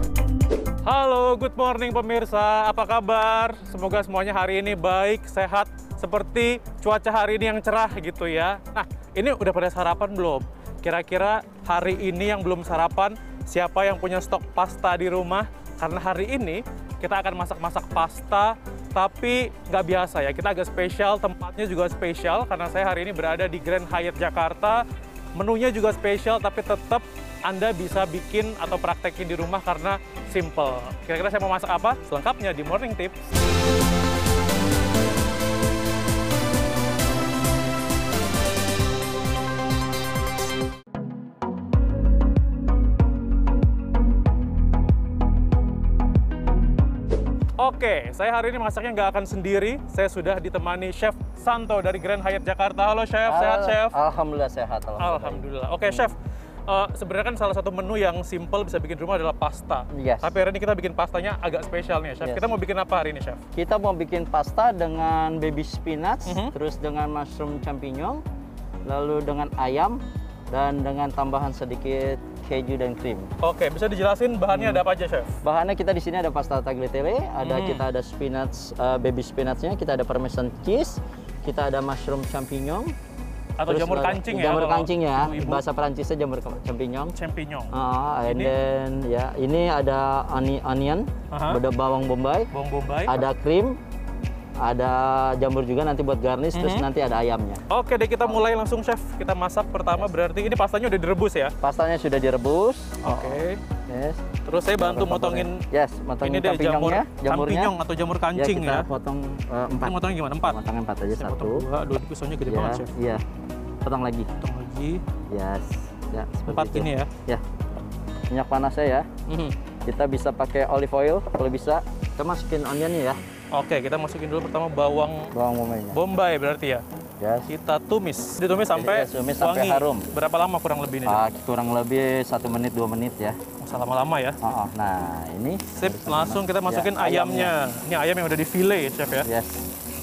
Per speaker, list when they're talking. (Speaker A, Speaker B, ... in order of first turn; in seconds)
Speaker A: 0.8-24.8, 25.4-33.1, 47.6-54.0, 55.0-63.4, 66.3-66.5, 73.4-75.3, 77.4-77.8, 83.6-85.6, 87.1-87.7, 88.2-88.5, 91.3-91.6, 92.5-93.3, 96.5-96.9, 97.7-101.5, 103.0-103.6, 104.5-105.7, 106.2-108.9, 109.8-110.6, 111.1-112.9, 114.4-115.0, 116.5-117.1, 119.3-119.5, 123.5-125.3, 125.9-126.8, 127.5-131.2, 133.6-134.4, 135.7-139.3
Speaker B: 53.2-56.1, 59.9-60.3, 62.2-62.5, 63.5-68.2, 68.9-73.3, 74.5-74.8, 75.4-82.9, 83.7-87.2, 87.7-92.5, 93.1-93.8, 94.6-97.6, 101.6-104.2, 104.8-107.8, 108.3-111.7, 112.5-113.2, 113.8-114.3, 115.3-117.4, 118.3-119.1, 119.8-123.2, 125.3-126.0, 127.2-127.5, 128.7-130.1, 131.1-133.4, 134.4-137.5, 139.2-139.7